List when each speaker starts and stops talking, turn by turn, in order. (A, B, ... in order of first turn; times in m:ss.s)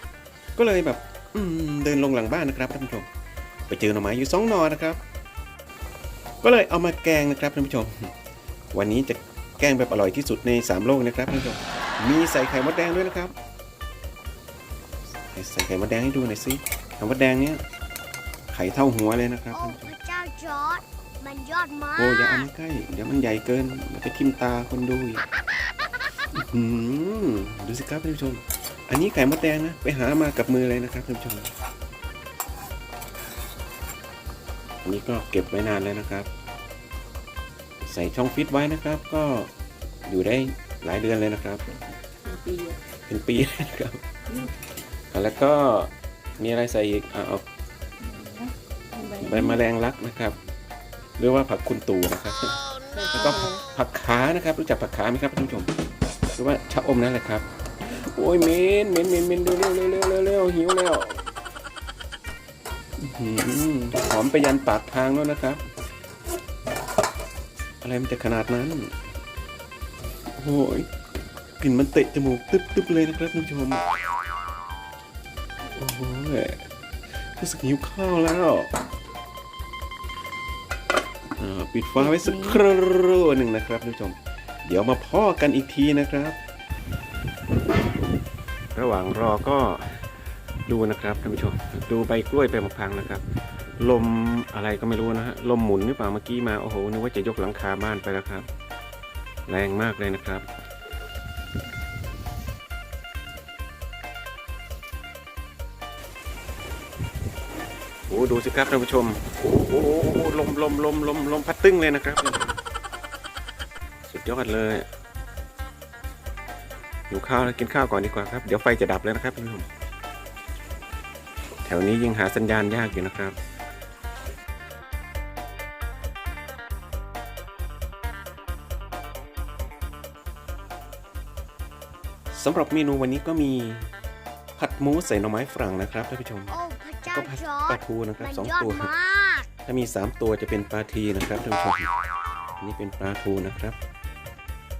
0:00.6-0:03.1 A
0:03.7-0:05.0 A
0:06.4-0:08.1 A
0:08.7-0:13.3 A
0:15.3-0:17.6 A
0:18.5-0:19.9 A
0:19.5-0:22.5 B
0:22.0-0:25.2 A
0:26.3-0:31.5 A
0:34.8-0:36.3 A
0:37.8-0:39.5 A
0:40.1-0:41.6 A
0:42.3-0:42.8 C
0:43.1-0:44.0 A
0:45.1-0:47.4 A
0:48.1-0:49.4 C
0:49.2-0:50.4 A
0:51.2-0:55.7 A
0:53.0-0:53.6 C
0:56.3-1:01.2 A
1:03.0-1:05.6 A
1:07.8-1:08.9 A
1:10.3-1:10.9 A
1:11.6-1:14.0 A
1:15.7-1:16.7 A
1:17.4-1:18.7 A
1:21.4-1:26.4 A
1:28.7-1:30.1 A
1:30.6-1:33.2 A
1:33.8-1:38.5 A
1:39.5-1:40.4 A
1:48.1-1:52.5 A
1:54.1-1:54.9 A
1:57.1-1:59.7 A
2:01.6-2:03.4 A
2:12.3-2:13.9 A
2:14.6-2:16.6 A
2:16.5-2:19.5 B
2:17.1-2:18.9 A
2:19.6-2:21.9 A
2:22.6-2:23.8 A